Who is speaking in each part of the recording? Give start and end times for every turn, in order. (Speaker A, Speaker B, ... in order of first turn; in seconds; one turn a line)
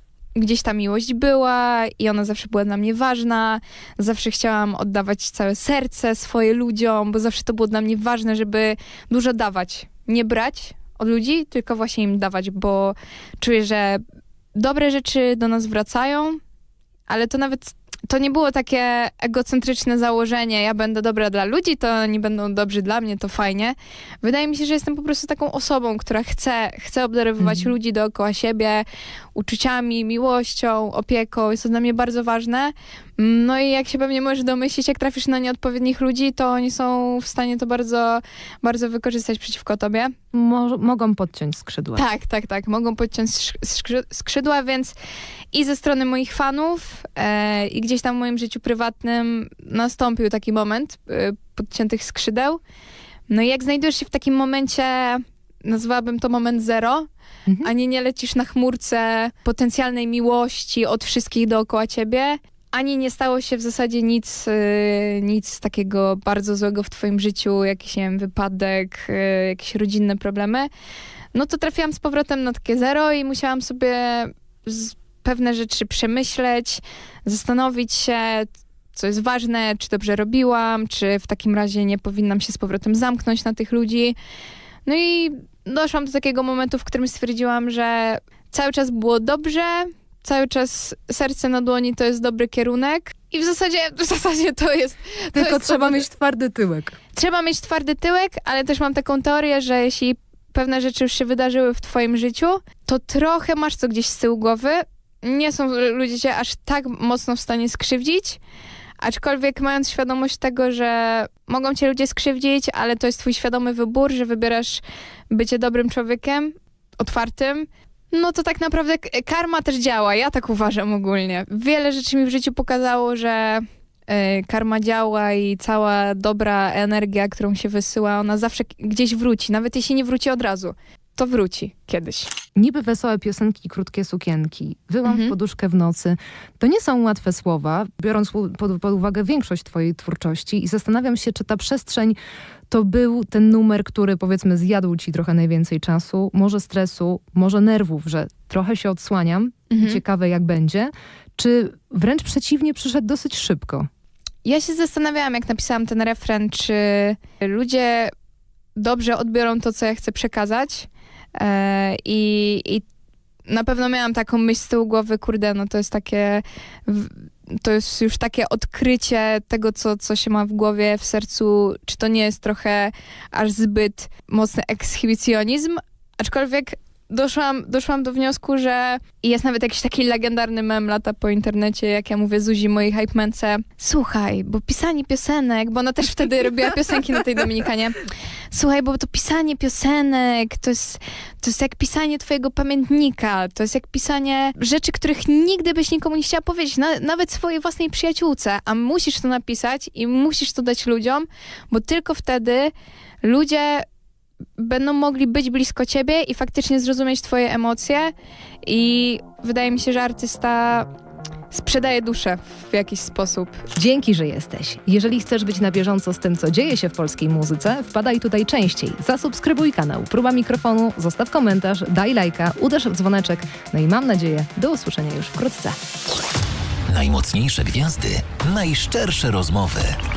Speaker A: 0.3-14.0
Speaker A: 14.5-16.4
Speaker A: 17.1-40.1
Speaker B: 27.4-27.7
Speaker B: 40.3-42.0
Speaker A: 41.9-44.9
Speaker A: 45.5-52.6
Speaker A: 53.3-57.0
Speaker A: 57.6-70.7
Speaker A: 71.3-84.2
Speaker A: 84.8-96.0
Speaker B: 95.3-97.0
Speaker A: 97.1-108.4
Speaker A: 109.0-132.3
Speaker B: 132.6-142.2
Speaker A: 135.0-135.3
Speaker B: 142.7-153.9
Speaker A: 149.7-150.0
Speaker A: 154.4-158.1
Speaker A: 158.8-162.8
Speaker A: 163.5-188.0
Speaker A: 188.5-203.8
Speaker A: 204.6-208.1
Speaker A: 208.6-210.9
Speaker A: 211.5-213.6
Speaker B: 213.7-225.8
Speaker C: 226.9-230.0